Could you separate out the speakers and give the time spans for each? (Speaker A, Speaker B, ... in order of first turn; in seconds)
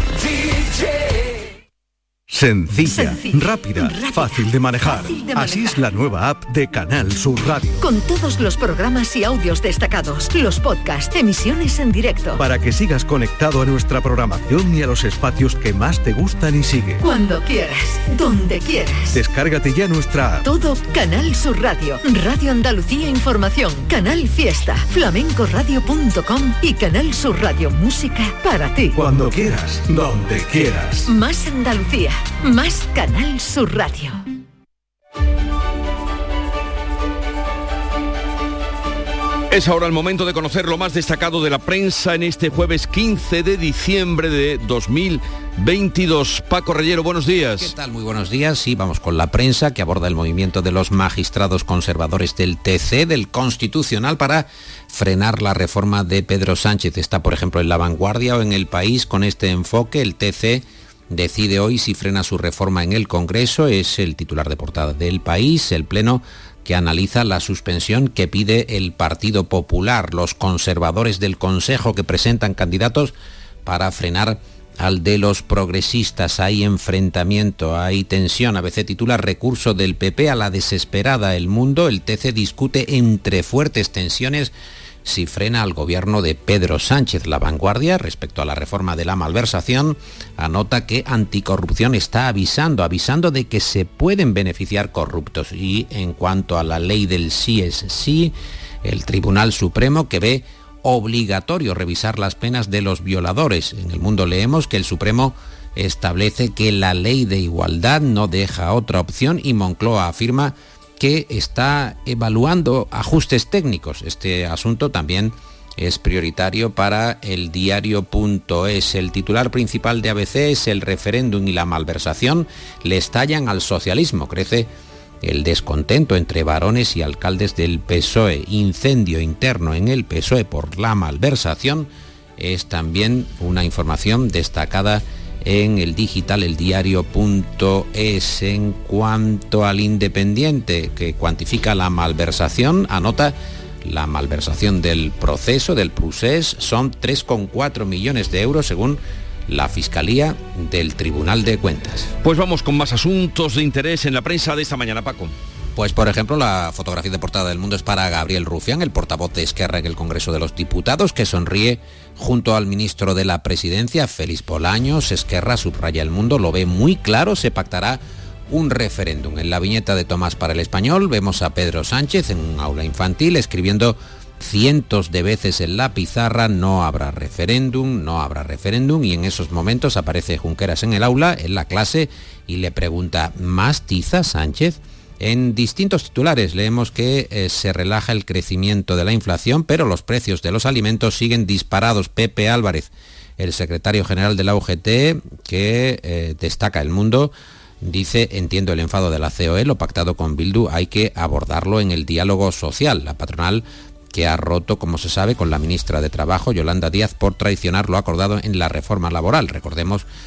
Speaker A: 2.3-7.8, 12.4-17.0, 19.1-20.4, 28.9-31.1
Speaker B: 2.8-5.8, 7.8-12.4, 17.0-19.1, 20.4-29.0, 31.1-34.2
Speaker C: 39.5-47.7, 152.2-155.3
Speaker D: 47.6-73.1, 73.6-84.5, 85.0-124.7, 125.2-152.1, 155.7-210.1